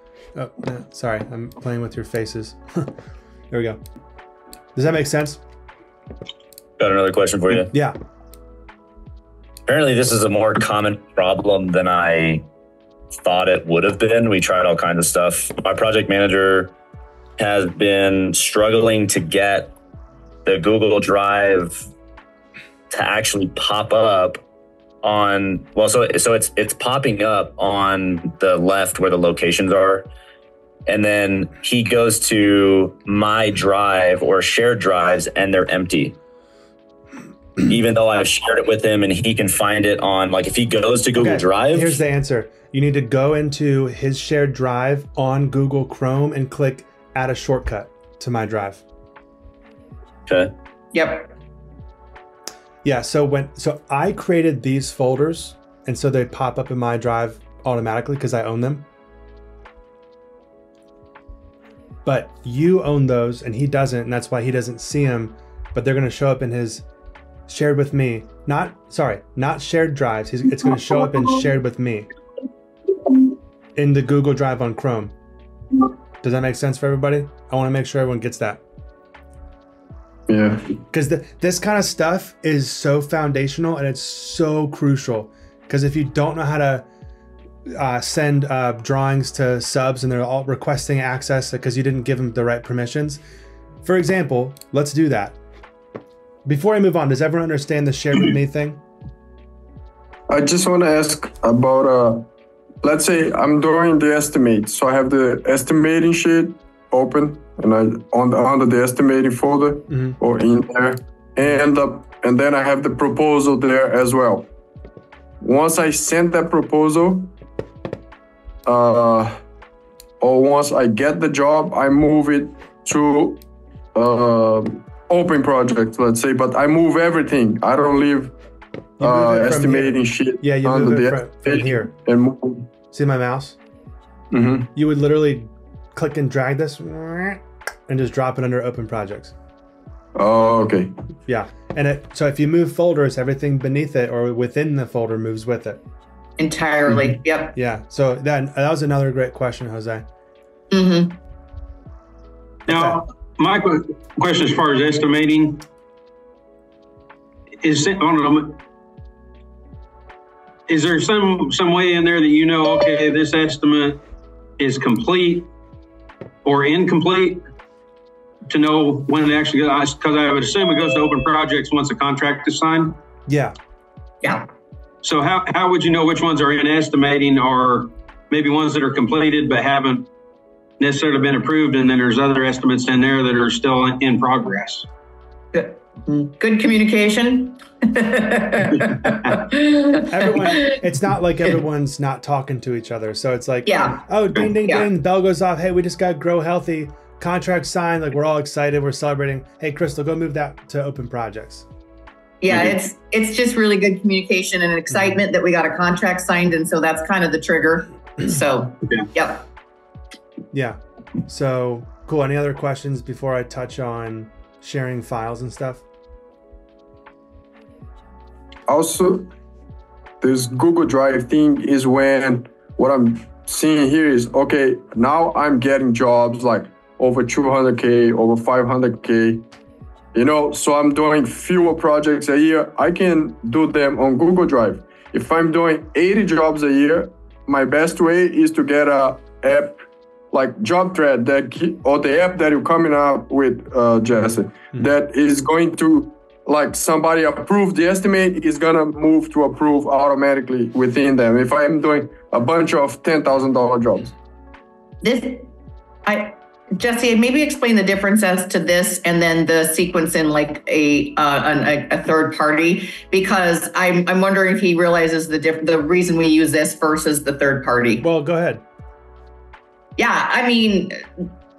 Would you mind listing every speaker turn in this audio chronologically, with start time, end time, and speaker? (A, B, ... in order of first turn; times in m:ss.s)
0:00.4-0:02.9 A
0:03.5-0:03.8 A
0:04.8-0:05.4 A
0:06.8-0:07.7 B
0:07.5-0:08.0 A
0:09.7-0:12.4 B
0:13.2-0:16.7 B
0:17.4-0:19.7 B
0:20.4-0:21.8 B
0:22.9-0:24.4 B
0:25.0-0:30.1 B
0:30.9-0:36.1 B
0:37.6-0:42.0 B
0:41.2-0:48.8 A
0:50.3-0:50.5 B
0:50.9-0:51.3 C
0:52.8-0:58.8 A
1:02.0-1:06.8 A
1:07.5-1:12.1 A
1:13.8-1:15.1 A
1:16.2-1:18.6 A
1:20.3-1:20.6 D
1:20.9-1:26.9 A
1:27.7-1:33.2 A
1:33.8-1:35.4 A
1:36.5-1:38.8 A
1:40.3-1:42.3 D
1:42.8-1:54.5 D
1:49.9-1:50.2 A
1:55.4-1:57.3 D
1:58.6-1:59.4 D
2:00.2-2:03.4 D
2:03.9-2:08.4 D
2:09.0-2:11.9 A
2:09.0-2:12.7 D
2:12.9-2:13.6 A
2:14.3-2:14.7 D
2:14.8-2:19.3 A
2:20.1-2:20.9 D
2:21.3-2:25.8 A
2:26.4-2:27.6 C
2:27.5-2:30.0 A
2:30.7-2:31.2 C
2:32.7-2:33.0 A
2:32.7-2:35.6 E
2:37.6-2:38.6 E
2:40.7-2:44.0 E
2:44.6-2:45.5 E
2:46.4-2:47.4 E
2:48.5-2:53.0 E
2:53.3-2:53.6 A
2:54.2-2:54.5 C
2:55.0-3:00.1 E
3:00.8-3:04.9 E
3:05.5-3:10.8 C
3:10.1-3:21.6 A
3:13.6-3:14.0 C
3:22.4-3:29.4 C
3:24.9-3:25.2 A
3:30.5-3:35.8 A
3:38.7-3:39.3 D
3:40.2-3:49.4 D
3:50.1-4:14.1 D
4:15.0-4:15.5 C
4:16.0-4:28.0 C
4:28.0-4:28.6 A
4:30.0-4:31.0 C